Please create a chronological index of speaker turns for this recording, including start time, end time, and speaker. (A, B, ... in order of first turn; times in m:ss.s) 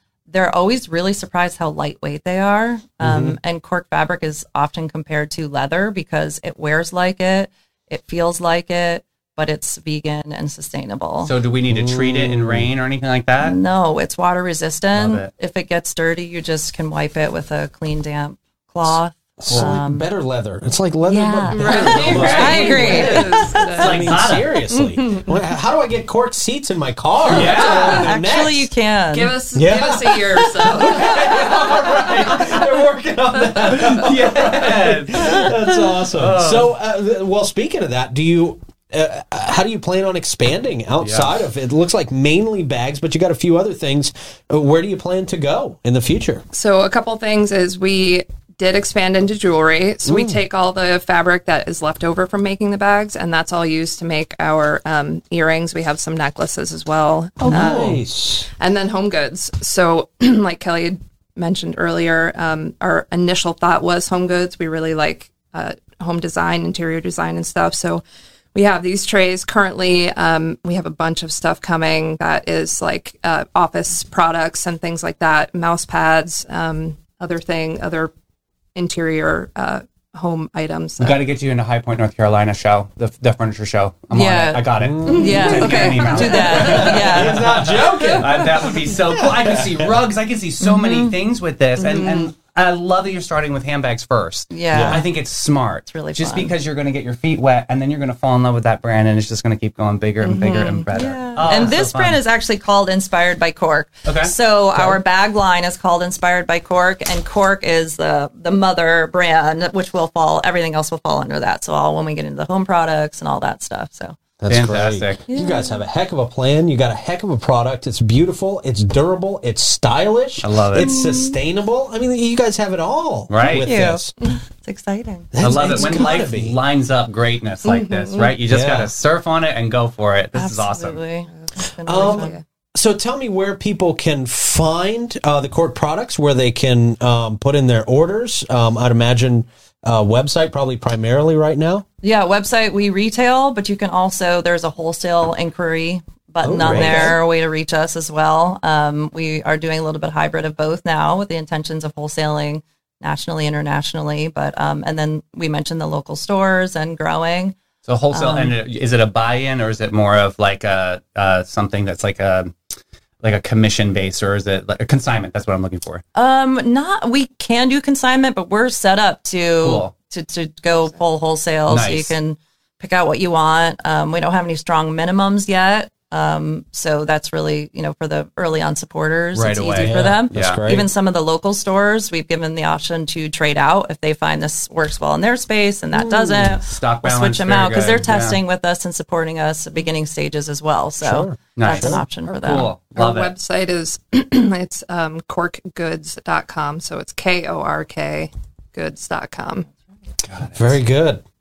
0:00.3-0:11.3 A
0:03.0-0:03.4 B
0:11.2-0:13.6 C
0:11.7-0:12.7 B
0:13.4-0:20.1 A
0:14.9-0:15.3 C
0:19.4-0:28.7 B
0:21.1-0:23.8 A
0:21.5-0:24.2 D
0:21.9-0:23.2 C
0:23.7-0:24.5 C
0:24.7-0:25.3 D
0:27.3-0:28.0 C
0:27.4-0:27.9 D
0:27.5-0:29.4 A
0:29.1-0:32.6 D
0:29.5-0:46.4 B
0:33.7-0:36.7 C
0:41.0-0:41.3 C
0:46.5-0:58.0 D
0:50.0-0:50.4 B
0:57.4-0:58.5 B
0:57.5-0:57.8 A
0:58.6-1:08.0 D
1:08.5-1:18.1 D
1:18.8-1:21.2 D
1:21.0-1:42.2 C
1:24.1-1:27.6 A
1:24.8-1:30.0 B
1:25.1-1:26.9 D
1:30.6-1:31.1 A
1:31.8-1:32.3 D
1:34.5-1:35.1 A
1:34.7-1:35.0 B
1:35.9-1:36.5 A
1:40.2-1:40.9 D
1:40.9-1:54.2 A
1:44.0-1:44.3 C
1:54.4-2:04.1 B
1:54.5-1:55.2 C
1:55.3-1:55.8 A
2:00.4-2:00.9 C
2:00.8-2:01.4 A
2:03.3-2:03.7 C
2:03.5-2:05.9 A
2:05.3-2:06.6 B
2:05.4-2:11.0 C
2:07.7-2:08.3 D
2:08.5-2:08.9 B
2:10.4-2:12.4 A
2:11.3-2:12.4 D
2:11.9-2:21.8 B
2:22.0-2:37.6 A
2:26.4-2:27.2 B
2:26.6-2:27.1 C
2:37.9-2:42.6 C
2:38.1-2:38.6 A
2:43.2-2:46.0 C
2:46.2-3:12.7 A
2:49.6-2:49.9 C
2:51.7-2:52.1 C
2:59.3-3:00.6 C
2:59.8-3:00.9 B
3:05.9-3:06.6 B
3:06.6-3:08.4 C
3:11.0-3:12.0 B
3:11.6-3:13.3 C
3:13.0-3:19.7 D
3:20.2-3:20.8 C
3:20.5-3:21.2 B